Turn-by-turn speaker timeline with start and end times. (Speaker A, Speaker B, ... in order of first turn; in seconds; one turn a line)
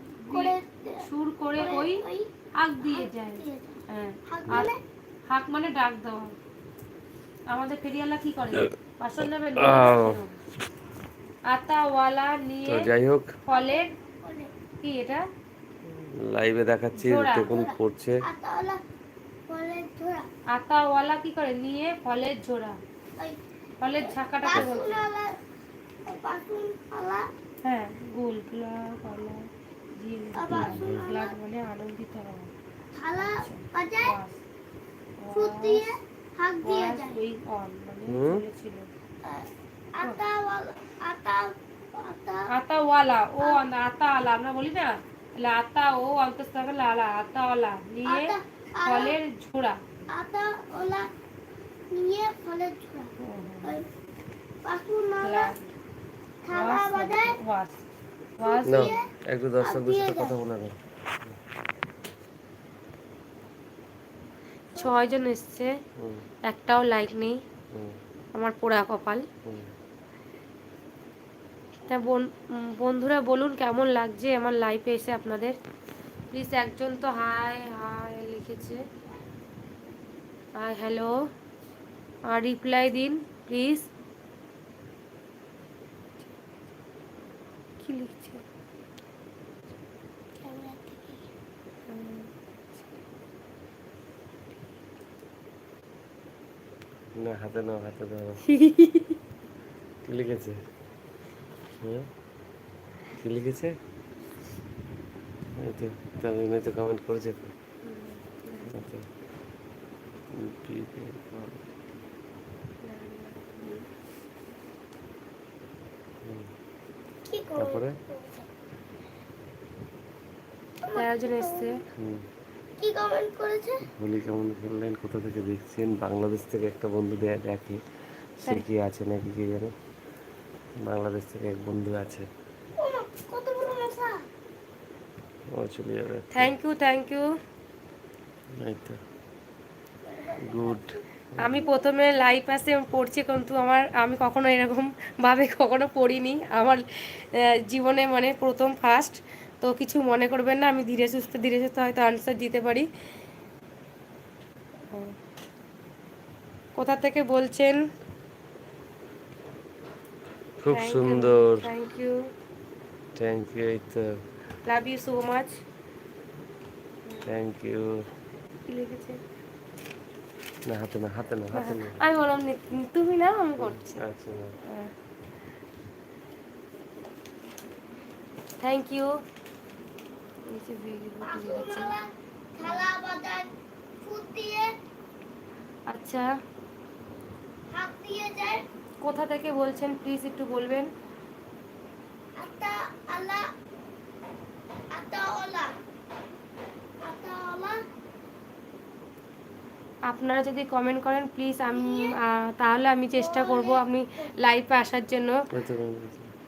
Speaker A: 0.2-2.0
Speaker B: 0.3-2.3
Speaker A: 2.6-4.7
Speaker B: 2.8-4.8
Speaker A: 5.3-6.3
Speaker A: 7.5-10.4
Speaker C: 9.6-10.2
Speaker A: 11.5-12.9
Speaker C: 12.7-13.3
Speaker A: 13.5-13.9
Speaker B: 13.5-14.5
Speaker A: 14.8-15.2
Speaker C: 16.2-18.2
Speaker A: 17.0-17.5
Speaker B: 17.5-18.8
Speaker B: 19.5-20.3
Speaker A: 20.5-22.8
Speaker A: 23.8-25.0
Speaker B: 24.4-25.3
Speaker C: 24.5-24.8
Speaker B: 26.1-27.3
Speaker A: 27.6-32.5
Speaker B: 30.4-31.4
Speaker C: 30.5-31.0
Speaker B: 33.0-34.2
Speaker A: 33.2-34.4
Speaker A: 35.2-35.9
Speaker B: 35.3-37.2
Speaker A: 36.6-38.9
Speaker C: 38.1-38.4
Speaker B: 39.2-42.5
Speaker A: 42.5-49.8
Speaker B: 48.1-49.2
Speaker B: 50.1-51.1
Speaker B: 51.9-53.9
Speaker A: 53.2-53.8
Speaker B: 54.6-55.5
Speaker A: 55.2-55.7
Speaker B: 56.4-57.4
Speaker A: 56.5-57.8
Speaker A: 58.4-59.0
Speaker B: 58.4-60.4
Speaker C: 58.6-60.8
Speaker B: 64.7-65.0
Speaker A: 64.8-65.7
Speaker C: 66.0-66.2
Speaker A: 66.4-67.4
Speaker A: 68.3-69.3
Speaker A: 71.9-75.5
Speaker A: 76.3-78.8
Speaker A: 80.6-81.2
Speaker A: 82.3-83.9
Speaker A: 87.8-88.4
Speaker B: 90.4-91.2
Speaker A: 91.9-92.3
Speaker C: 97.2-98.4
Speaker A: 98.5-99.2
Speaker C: 100.0-100.6
Speaker C: 101.8-102.1
Speaker C: 103.2-103.8
Speaker C: 105.6-107.5
Speaker A: 107.8-108.7
Speaker C: 108.7-109.1
Speaker C: 110.3-111.6
Speaker A: 112.8-113.9
Speaker C: 116.2-116.5
Speaker B: 117.3-118.5
Speaker C: 117.6-118.0
Speaker B: 120.8-121.8
Speaker A: 121.0-121.8
Speaker C: 122.0-122.2
Speaker B: 122.8-123.8
Speaker C: 123.9-127.8
Speaker C: 128.4-129.7
Speaker C: 130.8-132.3
Speaker B: 132.8-134.2
Speaker C: 135.5-136.5
Speaker A: 136.3-137.3
Speaker C: 138.6-139.0
Speaker B: 140.1-141.0
Speaker C: 140.4-141.6
Speaker A: 141.4-152.9
Speaker A: 154.9-155.2
Speaker A: 156.8-157.8
Speaker C: 160.6-161.7
Speaker A: 160.7-162.3
Speaker C: 163.2-164.2
Speaker A: 164.7-165.6
Speaker C: 167.3-168.0
Speaker A: 168.7-169.2
Speaker C: 170.7-172.0
Speaker A: 171.5-174.0
Speaker C: 173.6-174.6
Speaker A: 174.7-174.9
Speaker A: 178.6-179.1
Speaker A: 180.5-181.9
Speaker B: 181.2-183.5
Speaker A: 182.6-182.9
Speaker B: 184.0-184.7
Speaker A: 185.9-186.3
Speaker B: 187.7-188.7
Speaker A: 189.0-190.9
Speaker B: 192.4-193.5
Speaker B: 194.9-195.8
Speaker B: 197.0-197.8
Speaker A: 200.1-205.4
Speaker B: 201.6-202.2
Speaker B: 203.2-204.3
Speaker C: 205.5-206.3